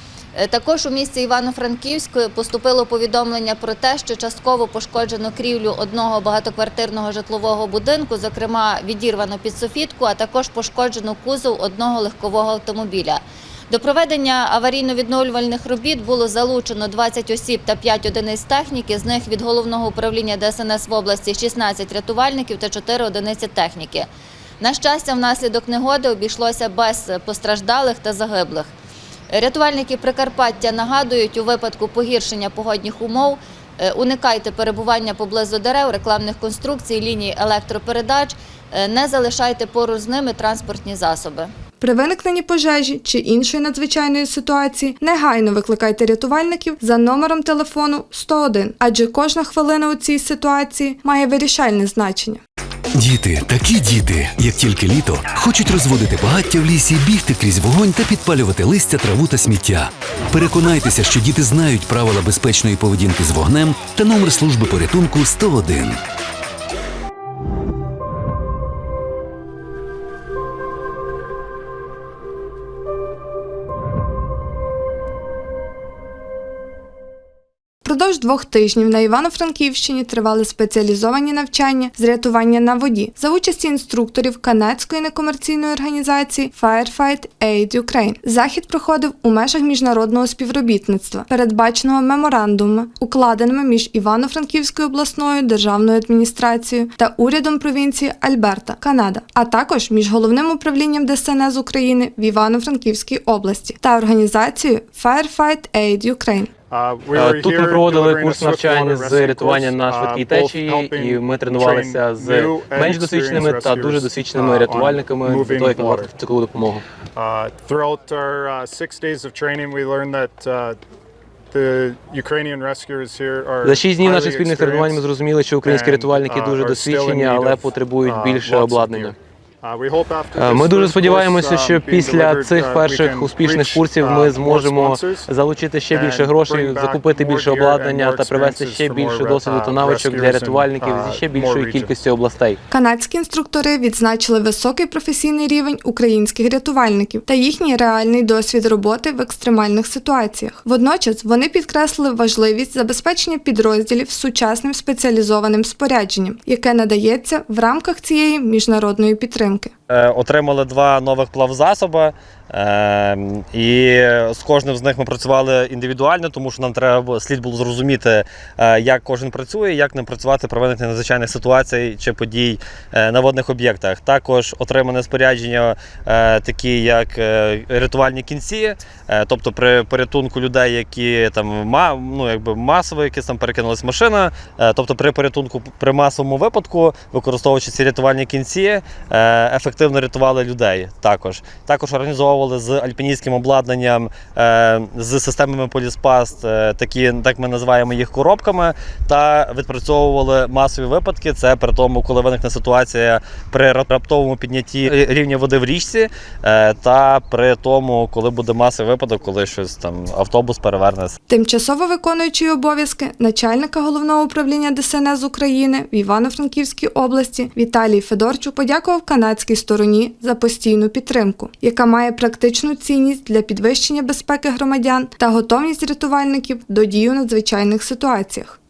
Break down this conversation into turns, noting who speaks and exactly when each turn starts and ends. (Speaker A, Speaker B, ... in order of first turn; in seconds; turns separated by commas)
Speaker A: 0.3-24.1, Speaker A: 24.6-28.7, Speaker A: 29.3-41.5, Speaker B: 41.8-52.4, Speaker C: 53.0-66.0, Speaker B: 77.8-106.5, Speaker D: 106.7-116.2, Speaker E: 107.2-116.8, Speaker F: 108.1-110.8, Speaker F: 111.4-111.8, Speaker F: 113.2-115.9, Speaker D: 117.2-120.8, Speaker D: 121.5-142.0, Speaker E: 123.8-129.0, Speaker F: 124.0-124.4, Speaker F: 125.5-126.8, Speaker F: 128.2-128.9, Speaker E: 130.4-142.6, Speaker F: 131.9-133.2, Speaker F: 136.6-141.6, Speaker B: 142.7-159.7, Speaker F: 159.9-211.1, Speaker B: 211.3-228.6